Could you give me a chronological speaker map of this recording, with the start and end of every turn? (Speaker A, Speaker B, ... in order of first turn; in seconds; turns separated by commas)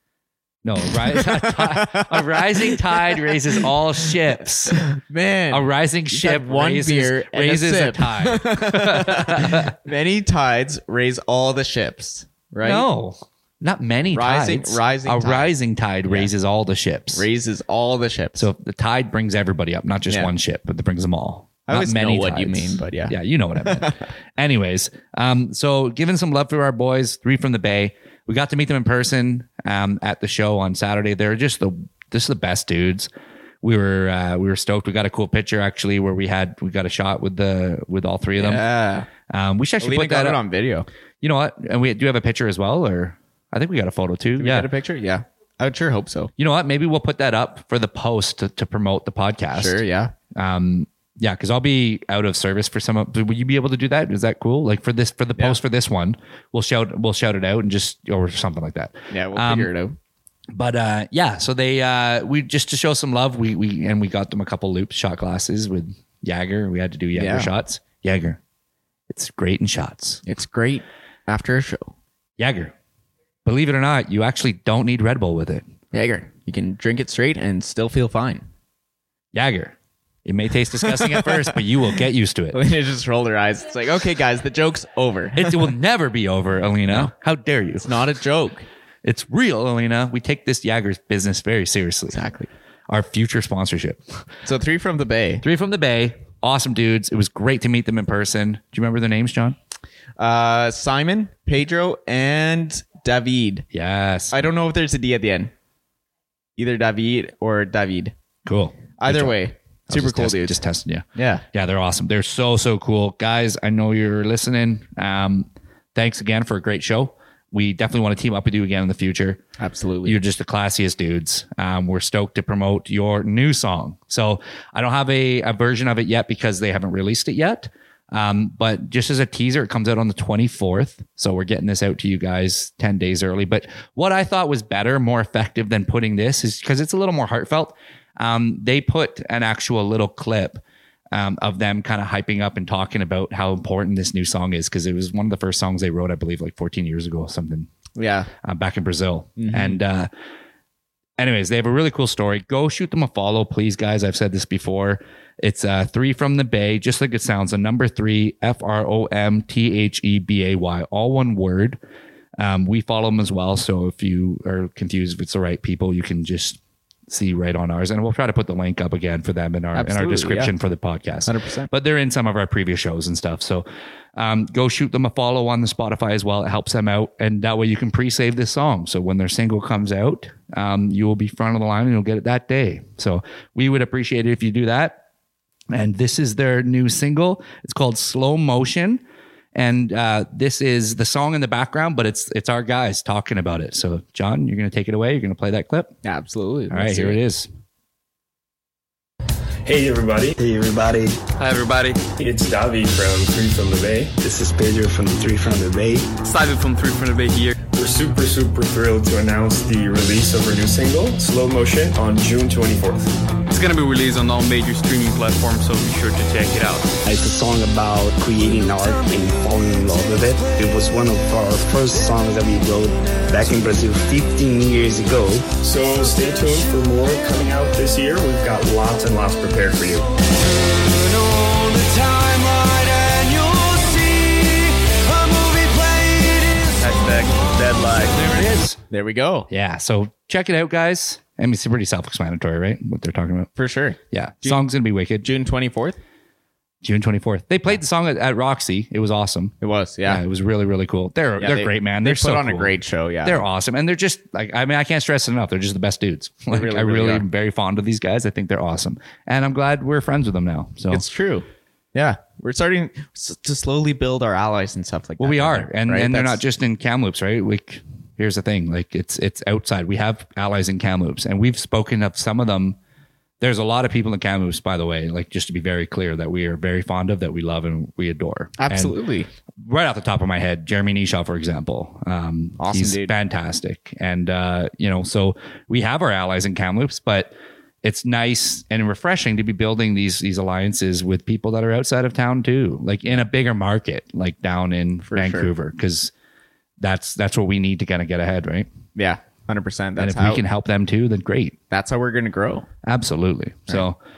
Speaker A: 0.6-4.8, Speaker B: 1.0-4.1, Speaker B: 4.7-12.9, Speaker A: 5.5-9.8, Speaker A: 12.6-17.3, Speaker B: 14.1-15.5, Speaker B: 17.1-18.4, Speaker A: 18.4-33.1, Speaker B: 21.7-24.1, Speaker A: 33.6-38.6, Speaker B: 38.4-39.1, Speaker A: 39.3-40.4, Speaker B: 39.8-40.9, Speaker A: 41.2-44.7, Speaker B: 44.4-46.3, Speaker A: 46.4-49.8, Speaker B: 49.5-50.1, Speaker A: 50.3-59.7, Speaker B: 59.1-60.0, Speaker A: 60.5-68.4, Speaker B: 67.1-67.5, Speaker A: 69.1-70.2, Speaker B: 70.2-71.9, Speaker A: 72.4-72.7, Speaker A: 73.5-75.7, Speaker B: 75.9-78.5, Speaker A: 79.3-82.6, Speaker B: 80.8-81.6, Speaker B: 82.5-85.7, Speaker A: 85.3-87.9, Speaker B: 87.8-88.7, Speaker A: 89.0-92.2, Speaker B: 92.1-92.5, Speaker A: 92.9-94.2, Speaker B: 94.5-95.4, Speaker A: 95.4-99.6, Speaker B: 100.2-103.7, Speaker A: 103.7-104.3, Speaker B: 104.3-105.5, Speaker B: 106.6-108.1, Speaker A: 108.5-119.4, Speaker B: 109.0-110.6, Speaker B: 111.2-111.4, Speaker B: 119.6-120.2, Speaker A: 120.0-147.7, Speaker B: 148.0-148.3, Speaker A: 148.4-150.1, Speaker B: 149.4-149.8, Speaker A: 151.2-161.8, Speaker A: 162.4-185.0, Speaker B: 169.7-170.5, Speaker B: 171.3-171.7, Speaker A: 185.7-189.0, Speaker A: 189.5-195.9, Speaker B: 196.1-197.2, Speaker A: 196.7-197.5, Speaker C: 199.7-200.4, Speaker D: 200.4-201.2, Speaker E: 201.4-202.1, Speaker C: 202.1-204.2, Speaker D: 204.2-206.1, Speaker E: 206.2-207.7, Speaker C: 207.7-213.2, Speaker E: 213.5-216.9, Speaker D: 217.0-225.5, Speaker C: 225.6-230.1, Speaker E: 231.2-234.5, Speaker E: 236.6-238.3, Speaker A: 238.1-238.8, Speaker B: 238.9-239.5, Speaker A: 239.5-243.5, Speaker B: 243.6-244.6, Speaker A: 244.1-245.3, Speaker B: 245.2-246.0, Speaker A: 246.8-249.6, Speaker B: 249.6-250.2, Speaker A: 250.1-252.7, Speaker B: 251.4-253.4, Speaker A: 253.2-261.1, Speaker B: 256.5-257.3, Speaker B: 260.9-266.4, Speaker A: 265.2-272.8, Speaker A: 273.4-279.0, Speaker B: 278.6-279.3, Speaker A: 279.6-296.1, Speaker B: 282.6-283.1, Speaker B: 295.1-295.5, Speaker A: 296.8-298.7, Speaker B: 298.9-300.4, Speaker A: 300.0-301.6, Speaker B: 301.7-302.7, Speaker A: 302.8-304.0